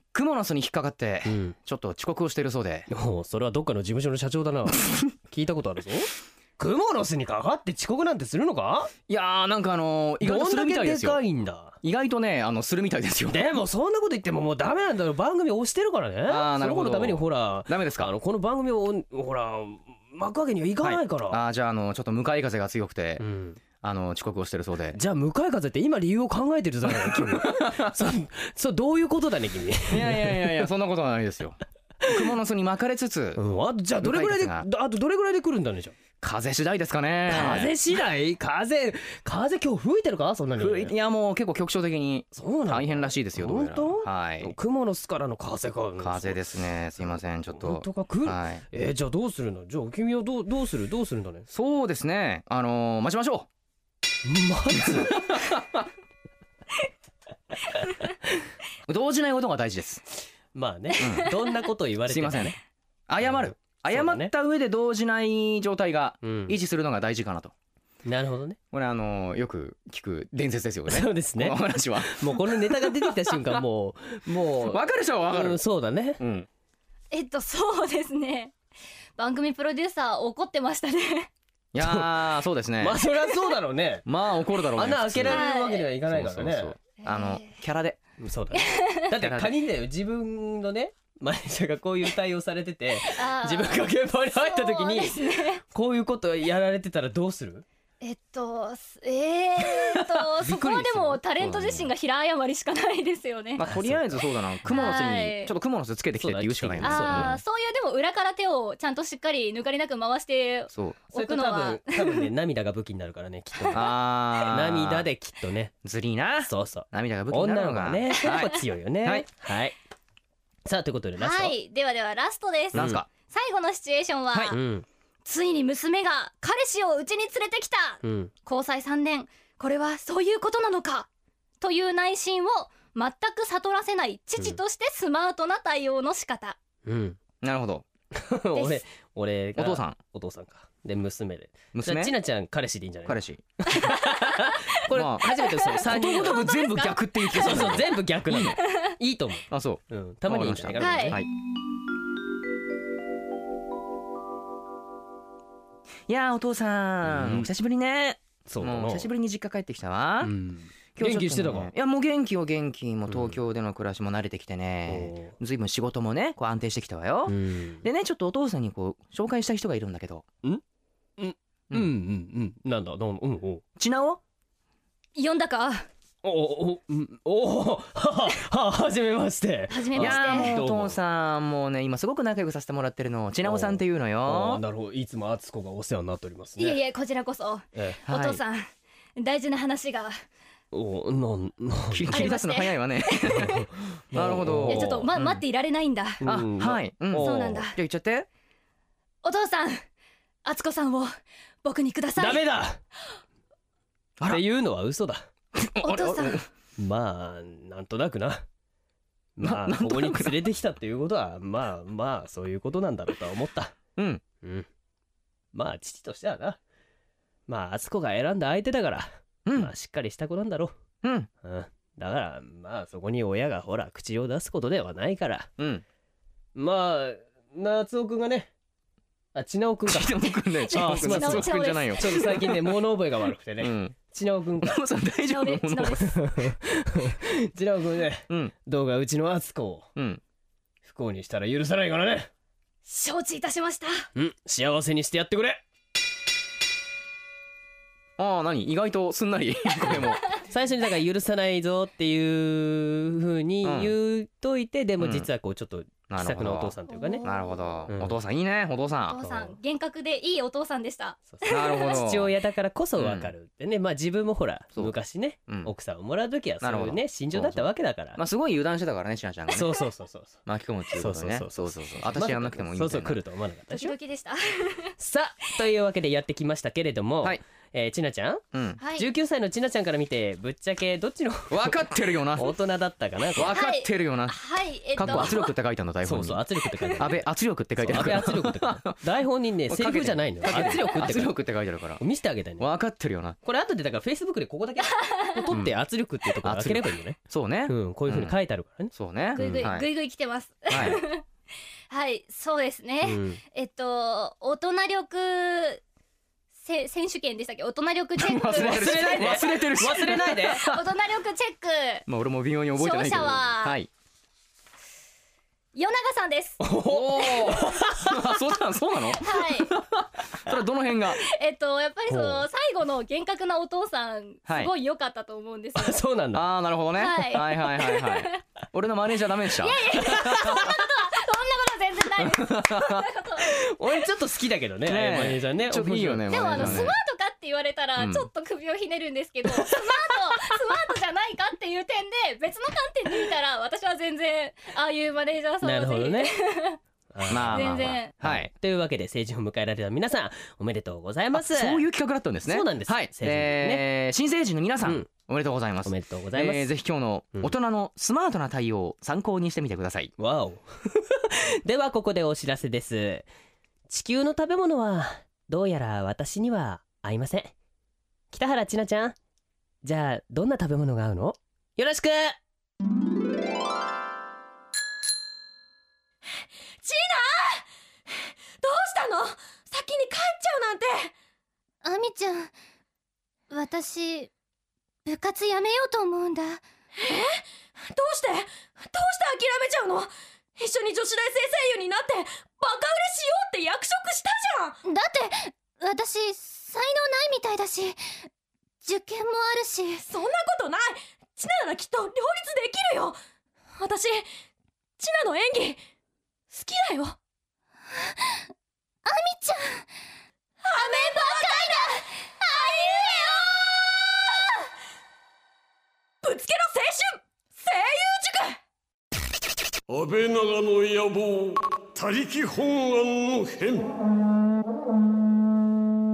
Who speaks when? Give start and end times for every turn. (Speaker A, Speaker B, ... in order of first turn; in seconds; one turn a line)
Speaker A: 0.1-2.9
Speaker B: 1.3-1.6
Speaker B: 2.9-8.9
Speaker A: 9.1-11.2
Speaker B: 10.2-11.8
Speaker A: 11.8-13.5
Speaker B: 13.3-21.4
Speaker A: 16.3-18.1
Speaker A: 20.8-23.2
Speaker B: 23.2-23.6
Speaker A: 23.8-25.0
Speaker B: 24.9-30.6
Speaker A: 26.9-28.1
Speaker A: 29.9-33.4
Speaker B: 33.4-36.0
Speaker A: 34.0-34.7
Speaker A: 36.2-37.7
Speaker B: 37.3-40.9
Speaker A: 40.6-44.5
Speaker B: 42.3-46.4
Speaker A: 46.0-48.6
Speaker B: 47.5-51.5
Speaker A: 51.5-53.5
Speaker B: 54.2-55.2
Speaker A: 54.9-55.9
Speaker A: 58.9-60.0
Speaker B: 60.5-62.6
Speaker A: 61.0-61.3
Speaker A: 62.1-62.6
Speaker A: 63.1-67.5
Speaker B: 63.2-64.3
Speaker B: 66.2-66.6
Speaker B: 68.1-68.6
Speaker A: 68.7-73.6
Speaker B: 70.9-76.2
Speaker A: 74.6-75.6
Speaker A: 76.2-76.5
Speaker C: 77.1-78.5
Speaker C: 79.2-81.3
Speaker A: 81.7-83.0
Speaker B: 81.8-84.1
Speaker A: 84.1-85.4
Speaker B: 84.8-86.8
Speaker C: 85.3-85.9
Speaker A: 86.1-88.0
Speaker C: 87.0-87.5
Speaker B: 88.2-97.7
Speaker C: 88.5-89.0
Speaker A: 89.1-89.5
Speaker C: 93.1-95.6
Speaker C: 98.0-103.6
Speaker A: 100.4-101.9
Speaker B: 100.6-101.2
Speaker A: 103.6-107.4
Speaker B: 103.6-104.8
Speaker C: 104.7-105.5
Speaker B: 106.2-107.4
Speaker C: 106.8-112.3
Speaker A: 110.7-111.0
Speaker B: 111.1-115.7
Speaker A: 113.7-115.1
Speaker A: 115.8-119.3
Speaker B: 116.5-119.8
Speaker B: 120.7-121.5
Speaker C: 121.2-124.6
Speaker B: 122.7-123.0
Speaker A: 122.7-123.1
Speaker B: 124.5-124.9
Speaker C: 125.2-131.1
Speaker B: 128.0-128.3
Speaker C: 131.6-136.6
Speaker B: 136.8-137.2
Speaker A: 137.4-137.9
Speaker B: 138.1-146.5
Speaker A: 139.6-140.0
Speaker A: 141.7-142.2
Speaker A: 143.1-143.5
Speaker A: 144.9-148.6
Speaker C: 145.8-147.8
Speaker B: 147.3-151.2
Speaker A: 149.5-151.3
Speaker C: 150.8-151.2
Speaker A: 156.1-160.3
Speaker B: 157.1-157.5
Speaker B: 158.5-159.1
Speaker B: 160.2-161.7
Speaker A: 161.0-170.2
Speaker B: 163.1-163.4
Speaker B: 164.9-165.3
Speaker B: 167.3-167.8
Speaker B: 171.2-173.6
Speaker A: 173.8-174.2
Speaker C: 175.2-175.9
Speaker B: 176.2-181.0
Speaker C: 179.7-180.6
Speaker A: 180.0-184.6
Speaker B: 183.4-186.8
Speaker C: 186.6-190.1
Speaker B: 187.8-188.0
Speaker A: 188.1-188.4
Speaker B: 190.7-192.4
Speaker A: 191.9-195.4
Speaker C: 192.1-193.7
Speaker B: 193.3-195.1
Speaker C: 194.7-196.2
Speaker B: 196.2-197.7
Speaker A: 196.2-198.3
Speaker C: 197.2-197.8
Speaker C: 199.2-199.8
Speaker C: 200.4-201.1
Speaker C: 201.6-202.4
Speaker B: 202.2-202.8
Speaker B: 204.3-205.2
Speaker A: 205.6-206.5
Speaker C: 205.8-206.4
Speaker B: 206.8-208.4
Speaker B: 209.4-213.8
Speaker A: 209.4-210.5
Speaker A: 214.0-214.2
Speaker B: 215.5-216.6
Speaker B: 217.5-220.8
Speaker A: 219.4-219.7
Speaker A: 221.0-221.3
Speaker B: 221.4-225.5
Speaker A: 225.6-225.8
Speaker B: 226.6-228.5
Speaker B: 229.3-230.2
Speaker A: 229.9-232.7
Speaker C: 230.7-232.4
Speaker B: 230.7-234.8
Speaker A: 233.6-234.0
Speaker A: 234.6-236.2
Speaker C: 235.3-236.1
Speaker B: 236.0-239.9
Speaker A: 240.0-240.2
Speaker B: 240.8-242.3
Speaker C: 242.9-244.1
Speaker B: 244.2-245.6
Speaker A: 248.2-250.2
Speaker B: 250.5-257.2
Speaker A: 253.6-253.9
Speaker A: 255.0-255.3
Speaker A: 256.1-259.4
Speaker C: 256.9-257.8
Speaker B: 257.9-258.2
Speaker C: 259.1-262.0
Speaker B: 261.3-268.2
Speaker A: 261.5-262.3
Speaker A: 263.0-263.3
Speaker A: 266.6-269.8
Speaker B: 269.5-270.4
Speaker A: 270.5-273.2
Speaker B: 270.9-273.9
Speaker C: 273.7-274.9
Speaker B: 275.0-278.4
Speaker A: 278.5-278.8
Speaker C: 278.8-279.1
Speaker B: 279.0-283.6
Speaker A: 281.5-282.6
Speaker A: 283.4-284.4
Speaker C: 283.5-285.5
Speaker A: 284.9-286.4
Speaker B: 285.0-285.3
Speaker B: 286.0-291.4
Speaker A: 287.0-289.0
Speaker A: 289.7-292.0
Speaker B: 292.0-292.7
Speaker A: 292.6-293.4
Speaker B: 293.4-299.7
Speaker C: 294.9-295.5
Speaker A: 296.4-298.4
Speaker A: 298.9-299.9
Speaker C: 299.4-301.2
Speaker A: 300.7-301.0
Speaker C: 301.9-305.8
Speaker B: 303.0-303.4
Speaker C: 306.6-309.4
Speaker A: 308.2-310.8
Speaker B: 308.5-310.7
Speaker C: 310.2-312.1
Speaker A: 312.1-313.9
Speaker C: 312.8-313.8
Speaker C: 315.8-316.6
Speaker B: 316.6-318.4
Speaker A: 316.8-321.2
Speaker C: 319.2-319.7
Speaker C: 321.2-326.0
Speaker B: 322.1-322.4
Speaker B: 325.8-326.4
Speaker A: 326.3-330.7
Speaker C: 327.0-328.4
Speaker C: 329.5-333.5
Speaker B: 330.2-330.5
Speaker A: 332.2-333.1
Speaker B: 333.4-336.9
Speaker A: 334.9-337.0
Speaker C: 336.3-346.8
Speaker A: 338.0-338.3
Speaker B: 339.5-340.6
Speaker B: 345.6-346.4
Speaker B: 347.1-351.8
Speaker A: 347.3-348.5
Speaker C: 347.5-348.1
Speaker A: 351.3-360.1
Speaker B: 352.5-353.8
Speaker B: 354.8-355.1
Speaker B: 355.8-356.7
Speaker B: 360.2-363.3
Speaker B: 363.9-367.5
Speaker B: 368.3-369.1
Speaker B: 369.8-372.4
Speaker D: 376.8-381.1
Speaker C: 381.8-382.5
Speaker C: 383.5-384.3
Speaker C: 385.1-386.6
Speaker D: 387.0-394.8
Speaker C: 394.9-398.0
Speaker C: 398.8-400.1
Speaker D: 400.1-403.2
Speaker D: 403.8-404.3
Speaker D: 405.0-405.8
Speaker D: 406.5-407.2
Speaker C: 407.9-408.4
Speaker C: 409.1-409.9
Speaker D: 410.6-414.0
Speaker C: 410.8-413.5
Speaker D: 416.2-418.6
Speaker E: 419.9-423.9